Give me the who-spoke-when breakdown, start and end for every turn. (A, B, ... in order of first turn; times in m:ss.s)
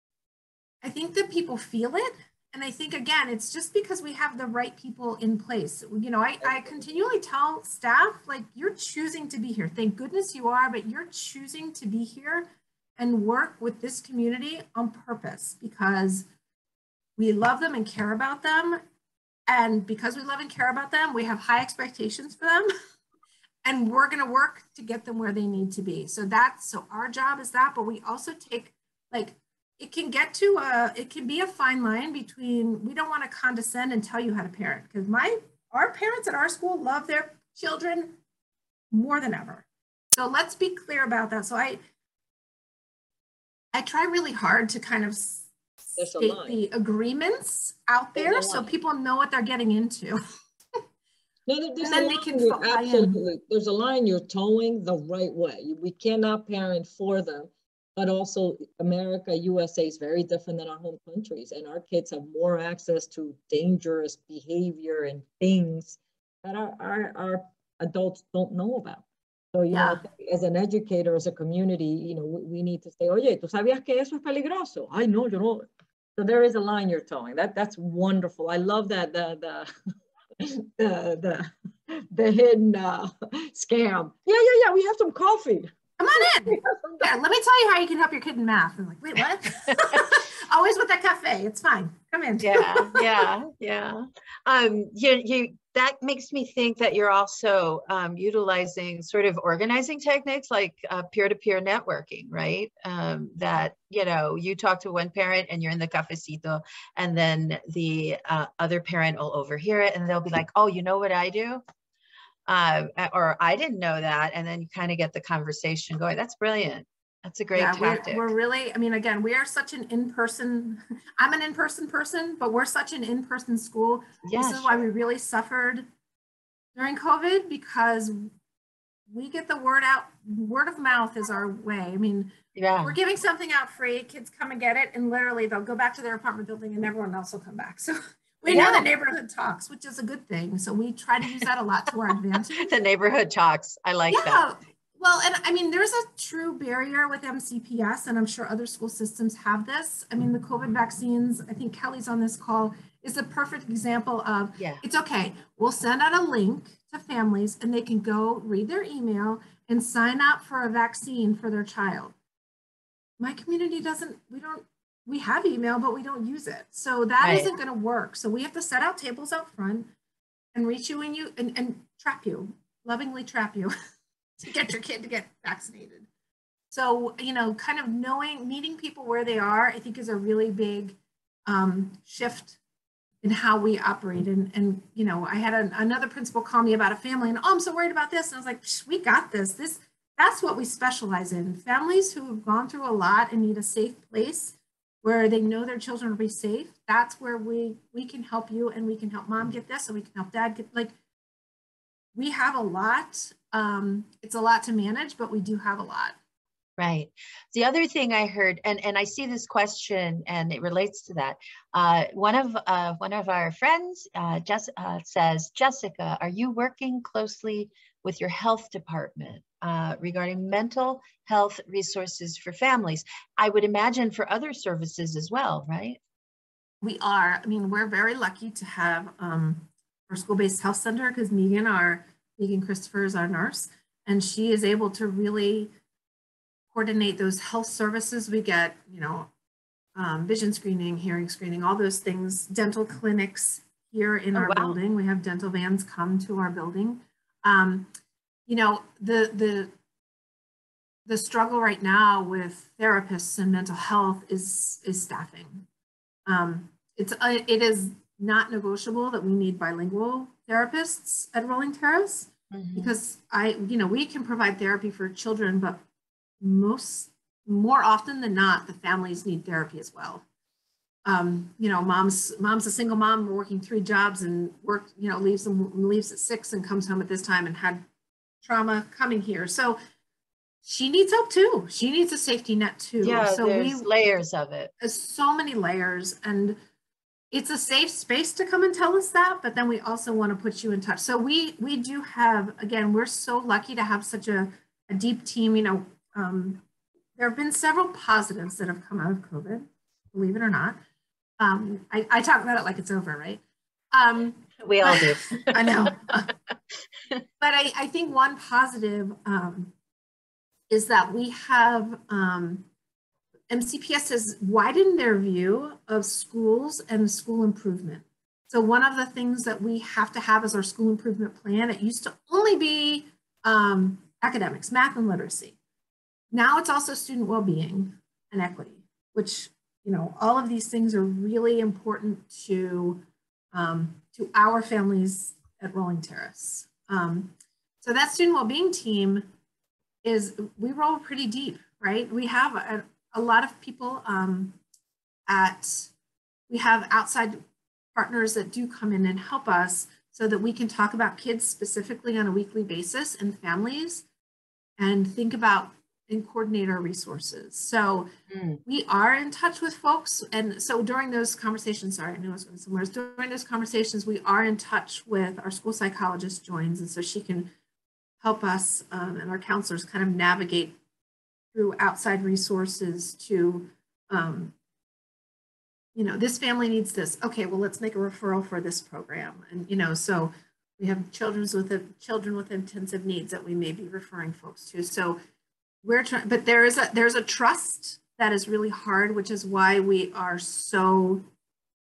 0:00.8-0:12.5 A
0:13.0-0:16.3 A
0:17.2-0:18.8 A
0:19.5-0:22.7 A
0:23.6-0:38.2 A
0:38.9-0:41.8 A
0:43.7-0:50.2 A
0:46.0-0:46.6 B
0:48.2-0:48.7 B
0:51.5-1:09.0 B
0:51.8-0:53.2 A
1:09.5-1:19.7 B
1:09.7-1:10.0 A
1:20.4-1:25.7 B
1:26.0-1:33.1 A
1:26.5-1:27.0 B
1:32.4-1:51.6 C
1:52.5-1:58.3 C
1:57.5-2:05.9 A
2:04.2-2:04.8 C
2:06.8-2:08.3 A
2:09.1-2:22.7 A
2:12.6-2:13.0 C
2:18.5-2:18.9 C
2:22.6-2:24.5 C
2:24.1-2:42.2 A
2:34.6-2:34.8 C
2:43.2-2:49.9 A
2:47.2-2:47.6 C
2:50.5-2:53.7 A
2:54.4-2:56.1 A
2:56.7-3:02.6 A
3:03.2-3:20.9 A
3:22.2-3:26.2 A
3:26.8-3:46.0 C
3:46.8-3:55.7 A
3:56.7-3:59.3 A
4:00.0-4:07.9 A
4:04.4-4:04.8 C
4:08.5-4:09.7 A
4:11.1-4:15.7 A
4:16.3-4:25.8 A
4:22.5-4:23.0 C
4:26.4-4:30.2 A
4:31.0-4:37.8 A
4:38.4-4:39.8 A
4:40.6-4:43.9 A
4:43.0-4:44.7 C
4:44.8-4:46.6 A
4:47.3-4:56.6 A
4:57.2-5:00.8 A
5:01.4-5:03.4 A
5:03.9-5:06.3 A
5:04.6-5:06.0 C
5:07.4-5:09.7 A
5:10.7-5:12.7 A
5:13.5-5:25.6 A
5:26.3-5:39.3 A
5:40.0-5:44.6 A
5:45.3-5:45.9 A
5:46.5-5:47.4 A
5:48.0-5:54.0 A
5:54.8-5:58.1 A
5:58.7-6:07.5 A
6:08.2-6:10.8 A
6:11.5-6:14.5 A
6:16.0-6:25.2 A
6:25.8-6:31.2 A